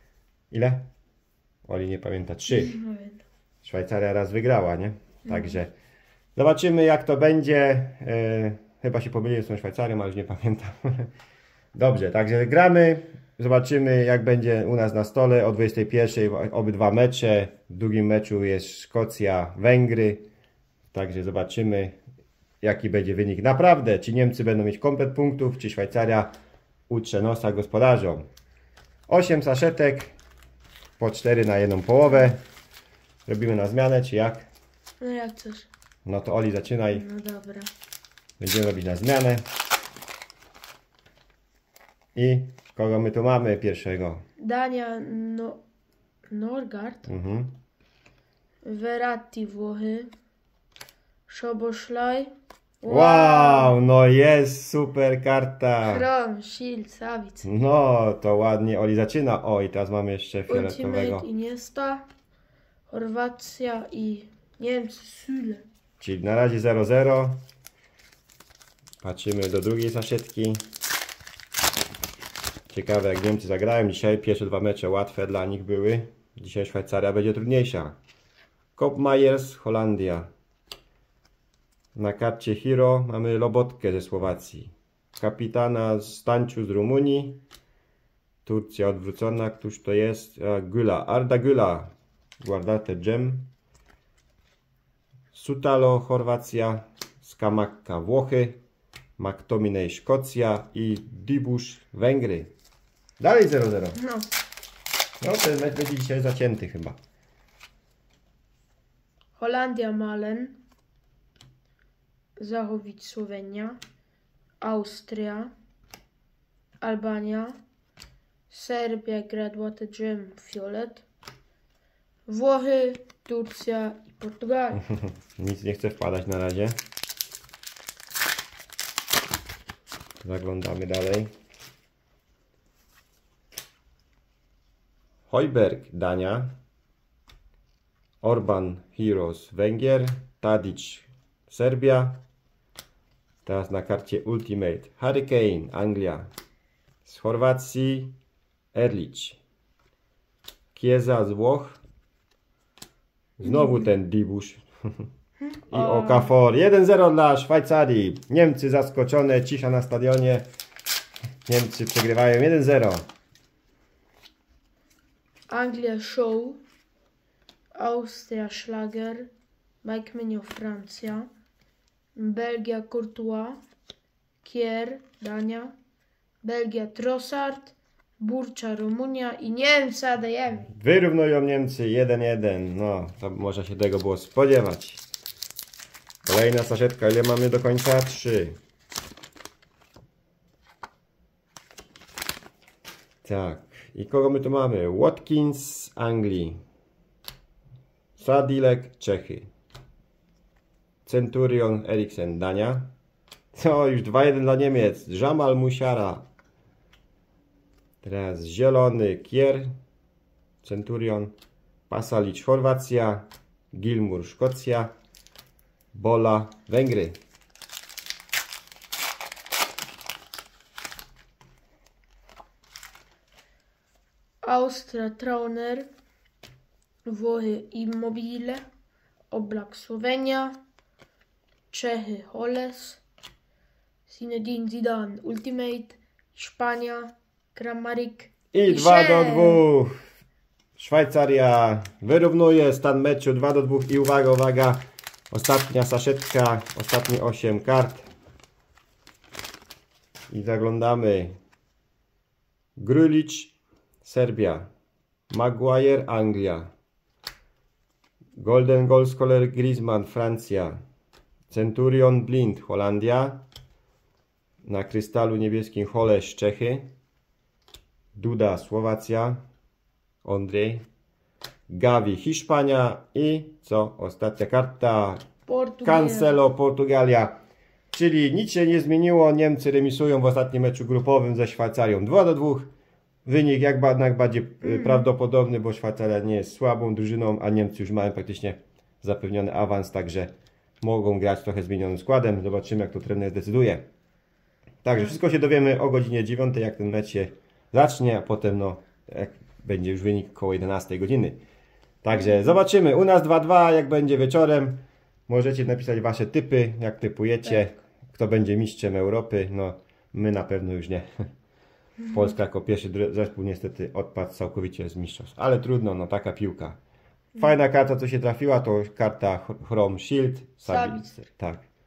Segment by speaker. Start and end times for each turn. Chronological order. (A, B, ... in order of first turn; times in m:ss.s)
0:00.5-0:00.9 A
0:01.7-0:02.8 A
0:02.5-0:03.2 B
0:03.6-0:05.7 A
0:05.3-0:05.6 B
0:06.4-0:11.1 A
0:11.8-0:20.2 A
0:20.9-0:22.0 A
0:22.6-0:26.3 A
0:26.9-0:28.2 A
0:29.1-0:30.2 A
0:31.0-0:32.4 A
0:33.3-0:34.5 A
0:35.0-0:35.7 B
0:36.0-0:37.0 A
0:36.9-0:37.7 B
0:38.4-0:39.5 A
0:42.2-0:44.3 A
0:44.4-0:45.6 B
0:46.3-0:47.1 B
0:47.1-0:47.6 A
0:48.6-0:50.1 B
0:51.3-0:53.8 B
0:52.9-0:56.0 A
0:55.8-0:57.5 B
0:57.4-1:01.3 A
1:00.5-1:02.1 B
1:02.9-1:05.7 B
1:06.0-1:07.4 A
1:09.0-1:10.6 A
1:12.7-1:18.0 A
1:18.8-1:20.3 A
1:22.0-1:27.4 A
1:28.4-1:33.5 A
1:35.3-1:38.6 A
1:39.2-1:42.5 A
1:43.2-1:44.0 A
1:44.0-1:44.3 B
1:45.2-1:47.0 A
1:49.4-1:50.6 B
1:52.4-1:53.8 B
1:54.6-1:55.5 B
1:56.8-1:57.6 B
1:58.5-2:01.0 B
2:02.3-2:04.8 B
2:04.8-2:06.8 A
2:10.2-2:11.3 A
2:15.3-2:16.5 A
2:18.2-2:22.2 A
2:23.4-2:26.3 A
2:27.0-2:28.1 A
2:28.7-2:29.4 A
2:30.7-2:31.8 A
2:33.4-2:34.6 A
2:33.4-2:33.9 B
2:35.4-2:36.3 B
2:35.7-2:40.5 A
2:41.5-2:43.1 A
2:45.5-2:46.6 B
2:47.8-2:49.3 B
2:49.8-2:51.3 B
2:52.2-2:53.6 B
2:54.4-2:55.8 B
2:56.4-3:00.7 B
3:00.7-3:05.0 A
3:06.2-3:08.6 A
3:13.2-3:16.6 A
3:18.2-3:19.5 A
3:21.1-3:22.9 A
3:23.5-3:26.3 A
3:28.0-3:29.7 A
3:30.6-3:31.3 A
3:31.9-3:34.9 A
3:35.9-3:37.2 A
3:44.4-3:45.9 B
3:47.1-3:48.6 B
3:49.3-3:50.6 B
3:51.7-3:53.0 B
3:54.1-3:59.6 B
3:58.5-3:59.9 A
4:00.8-4:08.1 A
4:10.3-4:11.4 A
4:12.8-4:14.7 A
4:15.3-4:16.7 A
4:18.4-4:20.8 A
4:21.5-4:23.4 A
4:24.6-4:26.9 A
4:28.2-4:29.4 A
4:30.2-4:30.8 A
4:31.7-4:35.3 A
4:35.5-4:36.4 B
4:35.8-4:37.4 A
4:37.9-4:42.7 A
4:43.2-4:53.8 A
4:44.6-4:45.1 B
4:54.8-5:01.4 A
5:02.0-5:11.1 A
5:12.1-5:16.8 A
5:17.4-5:21.6 A
5:20.6-5:21.1 B